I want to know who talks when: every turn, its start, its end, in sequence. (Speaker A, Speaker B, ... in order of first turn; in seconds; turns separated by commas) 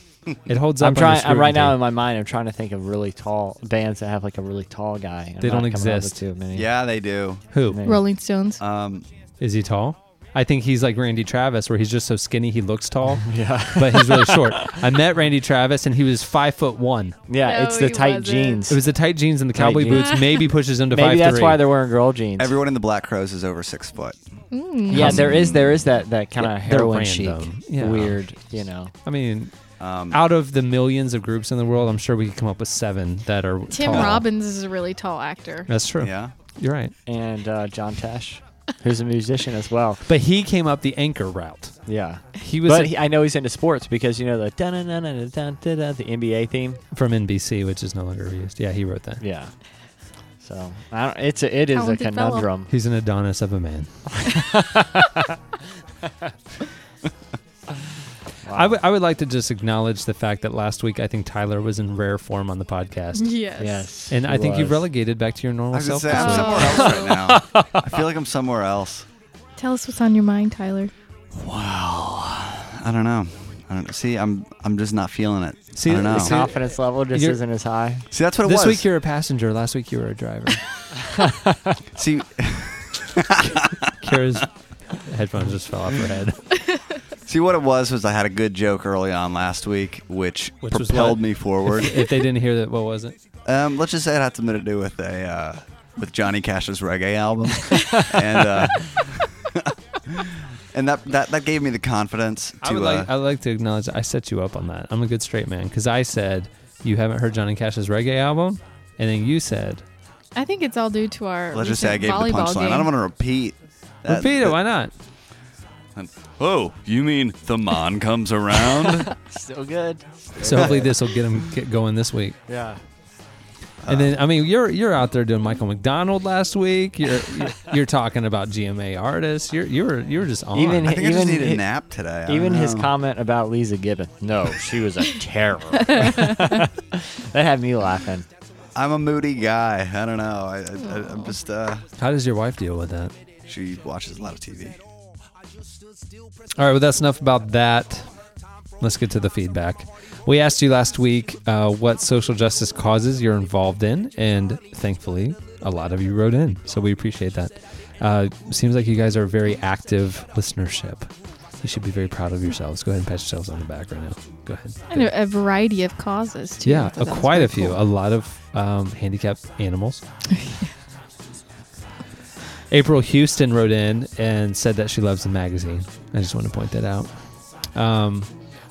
Speaker A: 0.5-1.8, Speaker B: 0.8-6.7, Speaker A: 5.4-6.2, Speaker C: 6.5-7.5, Speaker A: 7.5-7.8, Speaker B: 7.7-8.0, Speaker D: 7.8-8.6, Speaker C: 8.6-9.1, Speaker A: 9.4-17.2, Speaker B: 13.2-14.7, Speaker B: 17.3-18.8, Speaker D: 17.4-18.6, Speaker A: 18.7-21.6, Speaker B: 19.6-20.2, Speaker B: 20.9-22.6, Speaker C: 22.4-24.2, Speaker D: 24.5-25.2, Speaker B: 24.9-28.9, Speaker A: 24.9-25.3, Speaker C: 24.9-25.9, Speaker A: 26.4-28.2, Speaker A: 29.1-29.5, Speaker C: 29.8-30.2, Speaker A: 30.1-34.2, Speaker D: 33.7-35.7, Speaker A: 35.7-36.9, Speaker C: 36.0-36.4, Speaker B: 37.1-40.0, Speaker A: 40.1-41.8, Speaker B: 41.9-46.8, Speaker A: 42.4-42.9, Speaker A: 46.9-49.2, Speaker B: 49.2-49.5, Speaker B: 50.4-52.7, Speaker D: 51.7-52.5, Speaker A: 52.7-54.3, Speaker B: 54.2-55.3, Speaker B: 58.4-58.8, Speaker A: 58.5-63.3, Speaker D: 63.1-63.9, Speaker B: 63.6-64.8, Speaker A: 64.1-66.8, Speaker C: 65.7-69.1, Speaker D: 66.1-67.2, Speaker B: 67.3-67.8, Speaker D: 69.6-70.9, Speaker C: 71.3-76.4, Speaker A: 75.8-76.6, Speaker B: 76.1-78.0, Speaker A: 77.1-77.4, Speaker C: 78.1-78.9, Speaker A: 78.4-80.6, Speaker B: 81.2-81.8, Speaker C: 82.0-84.2, Speaker A: 84.0-86.5, Speaker C: 87.3-92.1, Speaker A: 90.6-93.2, Speaker C: 93.5-103.1, Speaker A: 102.6-109.8, Speaker D: 110.3-112.9, Speaker C: 111.5-114.6, Speaker A: 114.1-114.9, Speaker C: 116.0-119.1, Speaker B: 119.2-120.9, Speaker A: 120.4-122.4, Speaker B: 122.5-122.8, Speaker C: 123.8-124.2, Speaker A: 123.9-130.9, Speaker B: 130.5-131.7, Speaker C: 130.8-132.9, Speaker B: 132.3-138.3, Speaker C: 138.8-141.9, Speaker A: 142.0-143.1, Speaker C: 143.5-144.8, Speaker A: 146.6-148.1, Speaker A: 148.8-161.1, Speaker A: 161.6-165.1, Speaker D: 164.9-167.8, Speaker A: 166.7-170.0, Speaker D: 170.3-170.6, Speaker A: 172.7-178.3